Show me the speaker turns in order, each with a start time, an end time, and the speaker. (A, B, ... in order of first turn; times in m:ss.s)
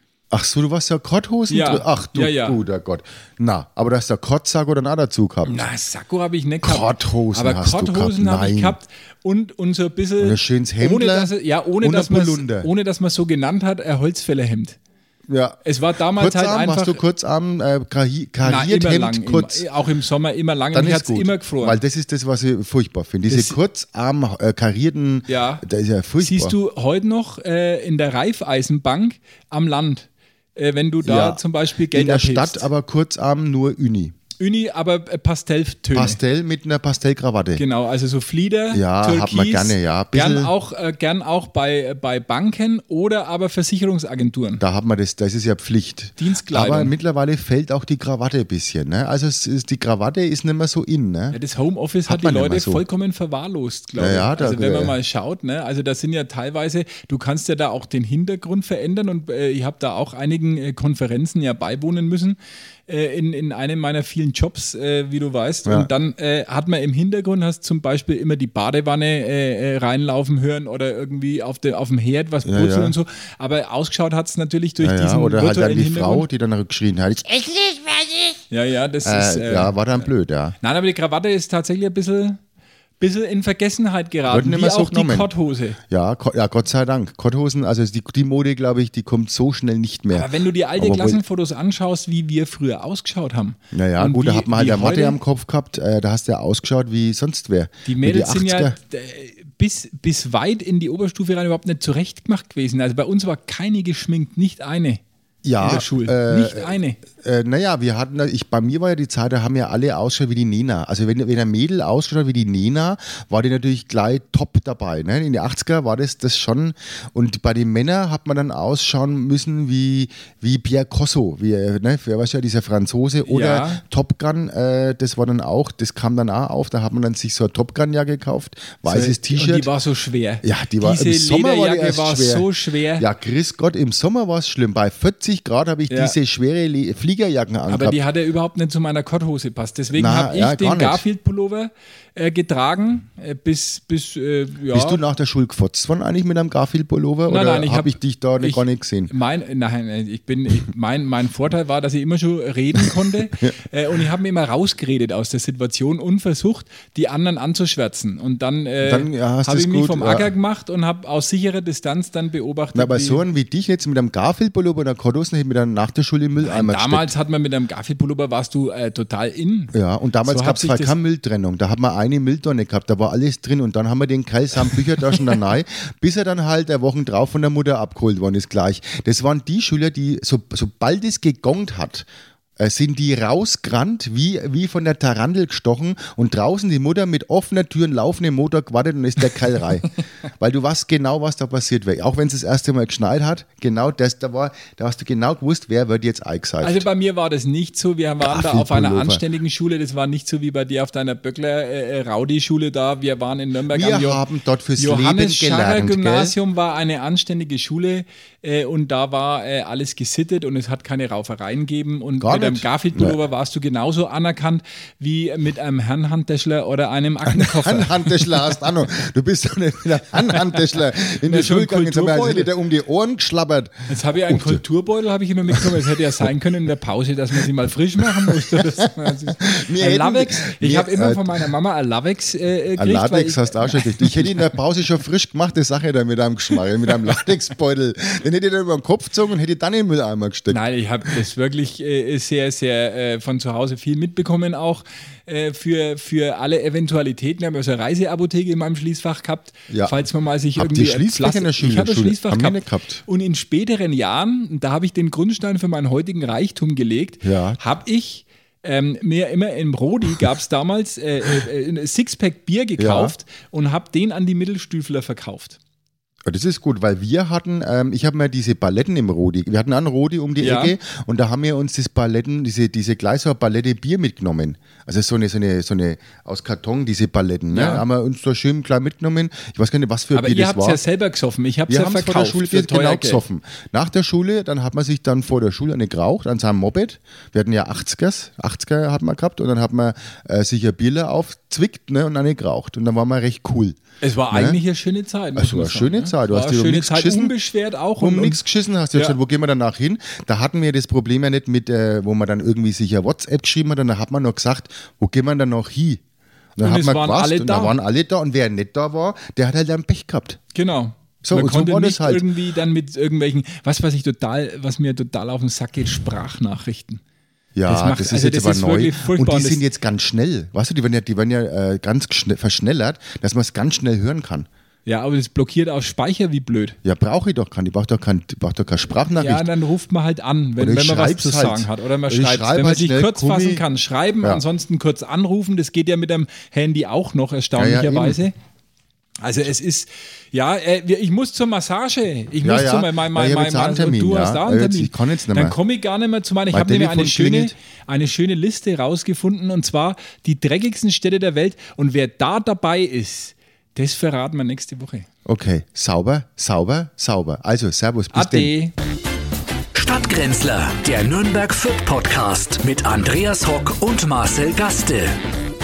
0:00.3-0:05.6 A
0:01.5-0:02.6 B
0:05.4-0:14.8 B
0:06.6-0:08.8 A
0:10.2-0:12.7 A
0:15.3-0:15.6 A
0:15.6-0:17.0 B
0:16.1-0:19.6 A
0:18.4-0:21.8 B
0:20.7-0:26.5 A
0:23.3-0:23.6 B
0:25.3-0:25.6 B
0:26.2-0:32.7 B
0:31.0-0:31.4 A
0:31.9-0:34.1 A
0:34.4-0:36.2 B
0:35.9-0:37.6 A
0:37.6-0:44.6 B
0:38.7-0:40.5 A
0:44.6-0:51.4 A
0:46.2-0:46.9 B
0:51.3-1:02.4 B
0:52.1-0:52.8 A
0:54.0-0:54.9 A
1:02.9-1:16.3 B
1:12.4-1:12.9 A
1:14.8-1:18.4 A
1:18.5-1:19.7 B
1:19.0-1:20.5 A
1:20.6-1:22.4 B
1:23.0-1:25.8 B
1:24.3-1:25.3 A
1:25.9-1:31.2 A
1:30.1-1:35.2 B
1:33.7-1:38.7 A
1:37.8-1:45.0 B
1:45.4-2:09.7 A
1:45.6-1:47.0 B
2:03.2-2:03.8 B
2:08.8-2:13.0 B
2:10.4-2:18.0 A
2:15.9-2:16.2 B
2:17.7-2:25.0 B
2:19.9-2:21.0 A
2:24.7-2:29.1 A
2:27.3-2:43.2 B
2:38.8-2:40.3 A
2:42.7-2:47.1 A
2:46.4-2:49.7 B
2:49.7-3:02.1 A
2:50.2-2:50.9 B
3:02.6-3:09.9 A
3:10.4-3:16.9 A
3:16.6-3:24.2 B
3:18.2-3:19.2 A
3:23.7-3:26.3 A
3:24.8-3:38.4 B
3:32.2-3:33.2 A
3:37.2-3:44.6 A
3:41.0-3:42.5 B
3:43.9-3:54.4 B
3:45.5-3:46.3 A
3:48.0-3:51.4 A
3:52.8-4:00.6 A
4:00.5-4:25.6 B
4:09.7-4:10.0 A
4:10.6-4:13.0 A
4:17.2-4:17.6 A
4:22.8-4:23.1 A
4:26.2-4:40.8 A
4:30.4-4:30.7 B
4:37.5-4:37.8 B
4:40.1-4:43.2 B
4:41.7-4:53.8 A
4:54.0-4:58.4 B
4:54.3-4:54.6 A
4:55.4-4:57.3 A
4:58.0-5:06.0 A
5:06.6-5:10.4 A
5:06.6-5:07.7 B
5:10.5-5:17.0 B
5:11.2-5:12.2 A
5:17.5-5:24.5 A
5:17.7-5:19.6 B
5:24.8-5:26.8 B
5:26.8-5:29.5 A
5:29.1-5:38.3 B
5:30.6-5:33.6 A
5:37.6-5:38.2 A
5:39.2-5:55.1 B
5:42.4-5:45.6 A
5:46.5-5:47.5 A
5:55.2-5:58.5 A
5:58.1-5:58.7 B
5:59.7-6:05.2 C